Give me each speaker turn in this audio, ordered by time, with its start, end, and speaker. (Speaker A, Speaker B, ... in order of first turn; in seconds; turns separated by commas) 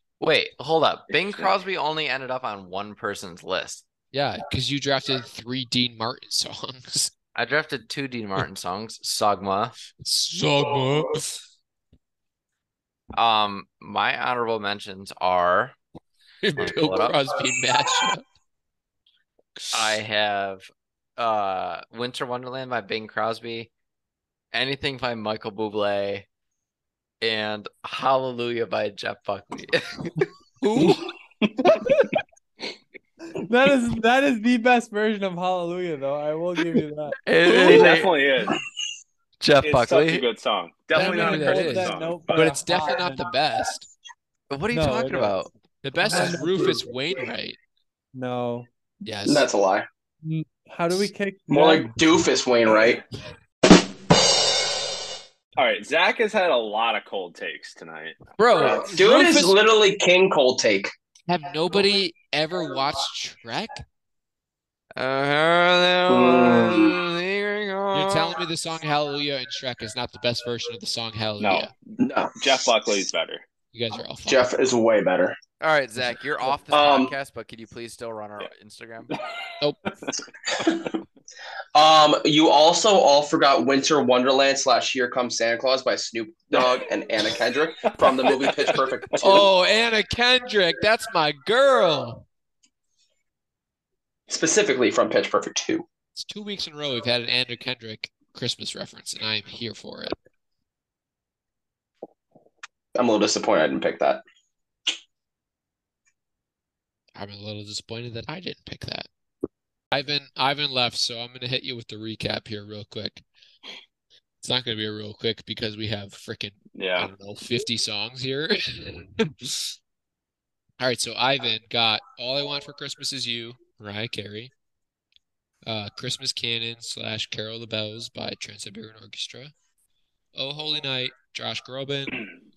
Speaker A: 0.2-3.8, Speaker B: 1.1-1.5, Speaker C: 4.1-7.1, Speaker A: 7.3-9.8, Speaker C: 10.0-11.4, Speaker A: 13.1-15.8, Speaker C: 16.4-18.2, Speaker A: 16.6-17.3, Speaker A: 19.7-23.7, Speaker A: 24.5-26.3, Speaker A: 27.2-30.1, Speaker C: 30.6-31.1, Speaker D: 33.4-37.2, Speaker A: 37.3-38.1, Speaker B: 37.5-38.6, Speaker C: 37.5-38.0, Speaker A: 39.4-40.2, Speaker B: 39.6-42.6, Speaker C: 40.9-43.9, Speaker D: 40.9-43.3, Speaker A: 44.5-45.5, Speaker D: 44.7-45.5, Speaker C: 45.8-47.6, Speaker D: 46.0-46.9, Speaker D: 48.1-48.7, Speaker C: 49.0-49.5, Speaker E: 49.2-49.9, Speaker D: 50.2-51.9, Speaker E: 51.5-53.0, Speaker B: 55.6-58.2, Speaker C: 58.4-59.6, Speaker E: 58.6-60.9, Speaker C: 61.3-63.8, Speaker A: 65.0-68.4, Speaker E: 66.1-67.0, Speaker C: 67.9-71.7, Speaker B: 71.4-73.4, Speaker E: 72.0-72.6, Speaker C: 73.7-74.5, Speaker E: 74.2-75.4, Speaker A: 75.6-79.1, Speaker E: 76.7-77.1, Speaker B: 79.1-79.5, Speaker E: 80.6-80.9, Speaker E: 81.8-89.5, Speaker B: 87.9-88.9, Speaker C: 89.2-92.2, Speaker E: 94.3-95.8, Speaker C: 96.2-100.2, Speaker E: 103.0-104.2, Speaker C: 107.2-109.1, Speaker C: 109.9-113.2, Speaker C: 114.4-119.7, Speaker B: 116.8-117.1, Speaker C: 120.8-124.5, Speaker C: 125.7-129.5, Speaker C: 130.3-132.2